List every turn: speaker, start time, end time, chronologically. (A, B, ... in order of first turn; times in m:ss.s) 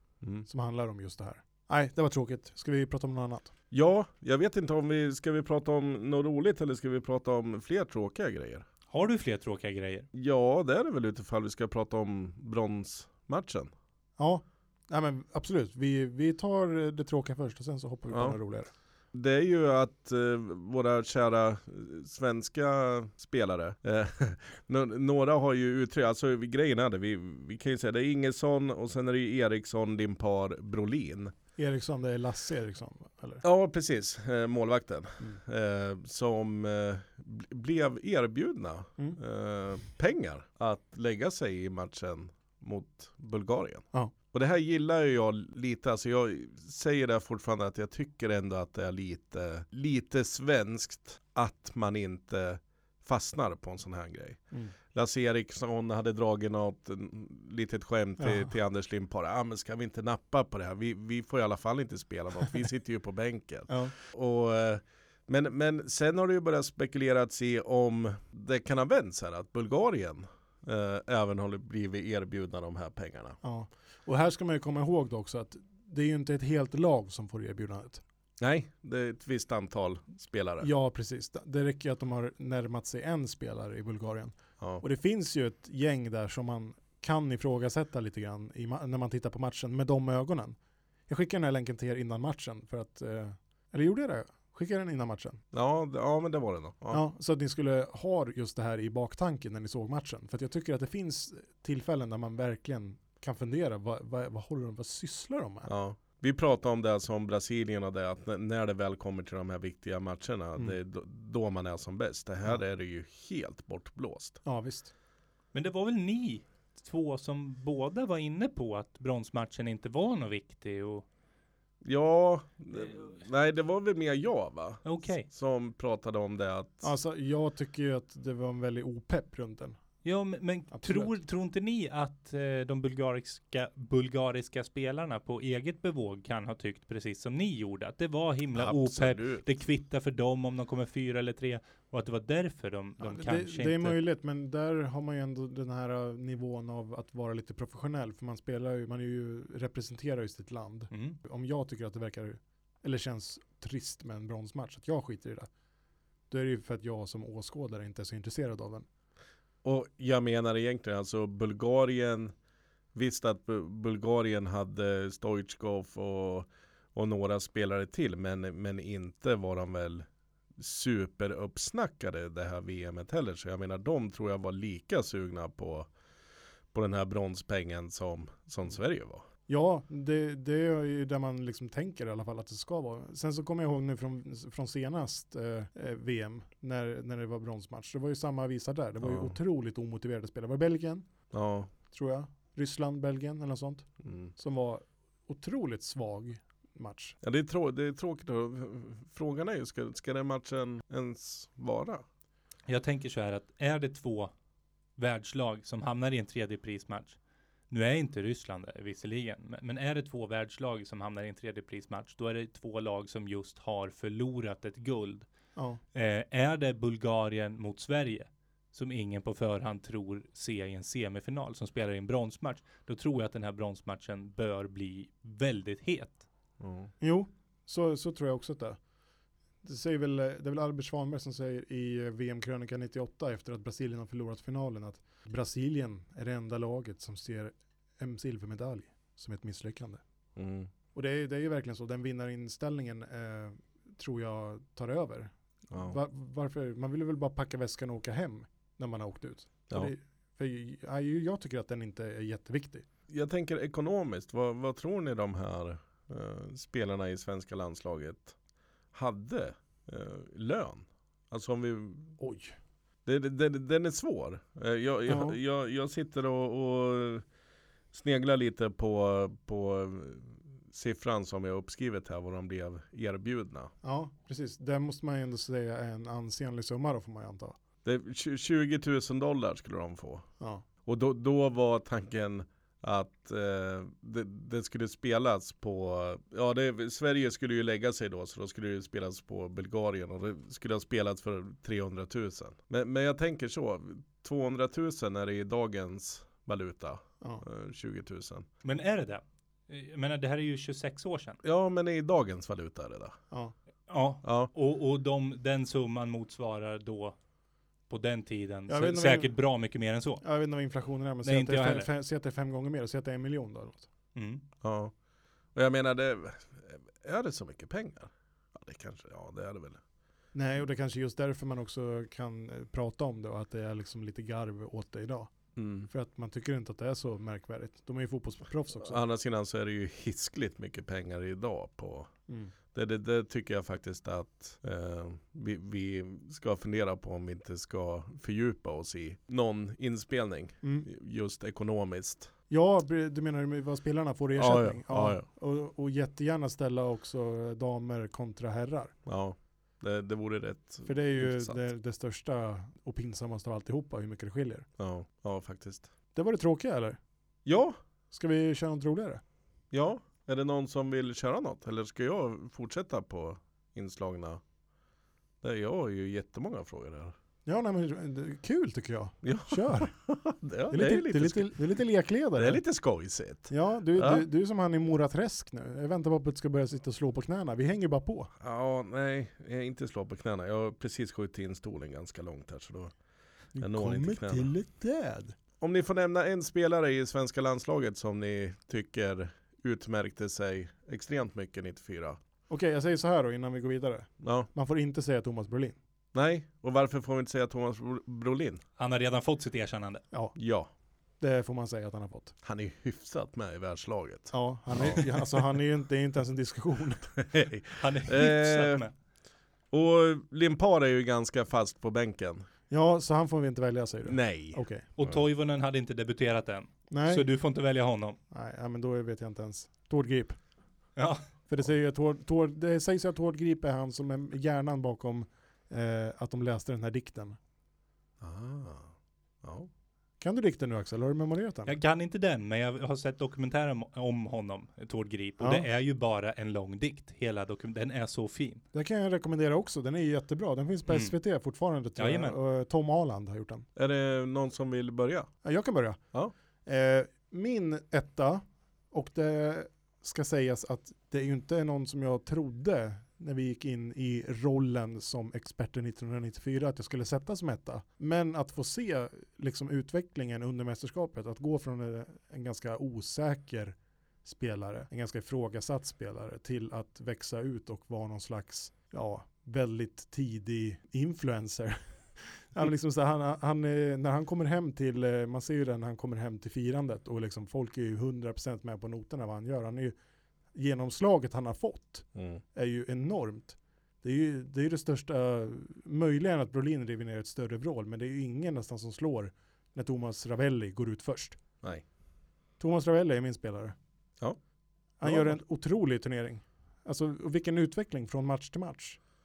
0:00.2-0:00.5 A
0:00.4-0:03.5 B
0:03.7-0:08.7 A
0:08.9-0:10.1 C
0:10.1-0:13.7 A
0:14.2-0:18.7 B
0:18.1-0:18.4 A
0:19.1-0:31.3 A
0:31.6-0:33.4 B
0:33.4-1:13.4 A
0:58.2-0:58.5 B
1:03.7-1:03.9 B
1:13.4-1:18.0 B
1:18.4-1:20.7 A
1:20.6-1:30.6 B
1:31.1-1:35.4 B
1:35.5-1:37.0 A
1:36.9-1:45.7 B
1:45.6-1:54.4 A
1:54.4-1:54.9 B
1:55.5-2:01.1 C
2:01.8-2:06.9 A
2:04.8-2:05.3 C
2:06.8-2:09.8 B
2:10.0-2:24.0 C
2:10.7-2:11.1 B
2:18.5-2:19.5 A
2:23.0-2:35.5 B
2:30.9-2:31.2 C
2:36.3-2:38.9 B
2:39.6-2:42.3 A
2:42.9-2:55.9 A
2:56.7-2:59.2 A
2:59.5-3:11.1 B
3:09.0-3:09.4 A
3:11.3-3:11.7 A
3:11.9-3:17.2 B
3:14.0-3:14.3 A
3:17.2-3:22.0 A
3:22.7-3:24.3 C
3:25.0-3:27.2 C
3:27.7-3:35.3 C
3:35.9-3:46.2 C
3:46.6-3:46.9 A
3:47.0-3:48.8 B
3:49.6-4:00.0 B
4:00.4-4:00.7 A
4:00.9-4:12.9 B
4:05.7-4:06.0 A
4:13.1-4:18.4 A
4:18.9-4:22.2 A
4:22.2-4:22.6 B
4:23.0-4:27.2 A
4:25.1-4:25.4 B
4:27.9-4:33.7 A
4:33.8-4:37.6 B
4:37.8-4:40.3 A
4:40.8-4:58.5 A
4:58.6-5:01.4 C
5:01.4-5:03.2 A
5:03.9-5:07.2 C
5:04.2-5:04.5 A
5:07.9-5:10.2 C
5:08.7-5:09.3 B
5:10.2-5:13.9 B
5:11.2-5:11.9 C
5:14.2-5:14.4 C
5:14.6-5:14.9 A
5:15.5-5:19.8 A
5:20.3-5:25.3 B
5:25.6-5:25.9 A
5:25.9-5:29.0 B
5:28.8-5:32.1 A
5:32.3-5:32.5 B
5:32.7-5:42.3 A
5:40.6-5:40.9 B
5:42.5-5:49.0 B
5:44.4-5:45.3 A
5:49.1-5:51.6 A
5:50.9-5:54.7 B
5:54.8-5:55.9 A
5:56.2-5:57.0 B
5:57.4-5:57.8 A
5:58.1-5:59.2 B
5:59.7-6:04.4 A
6:05.4-6:07.2 A
6:07.4-6:09.9 B
6:09.2-6:11.6 A
6:10.7-6:12.6 B
6:12.4-6:14.2 A
6:13.5-6:18.3 B
6:18.4-6:22.9 A
6:23.6-6:25.4 B
6:23.6-6:24.5 A
6:25.6-6:32.2 A
6:32.5-6:35.8 B
6:34.2-6:34.5 A
6:36.1-6:38.6 A
6:38.8-6:40.0 C
6:40.4-6:40.7 A
6:41.2-6:42.4 B
6:42.4-6:45.2 A
6:44.3-6:47.1 B
6:47.2-6:48.9 A
6:47.8-6:48.9 C
6:49.7-6:52.5 A
6:52.7-6:54.9 B
6:54.1-6:55.2 A
6:55.0-6:58.2 C
6:56.9-6:57.3 B
6:58.3-7:00.4 B
7:01.0-7:01.2 C
7:01.5-7:07.4 B
7:08.2-7:09.7 A
7:10.2-7:11.8 B
7:11.7-7:18.6 C
7:15.4-7:15.6 B
7:18.7-7:23.7 B
7:20.9-7:21.1 C
7:22.0-7:22.4 C
7:23.8-7:25.3 A
7:25.4-7:26.0 B
7:26.6-8:00.0 B
8:00.5-8:11.4 B
8:02.2-8:02.4 A
8:12.6-8:13.8 B
8:15.0-8:19.0 B
8:15.0-8:15.4 A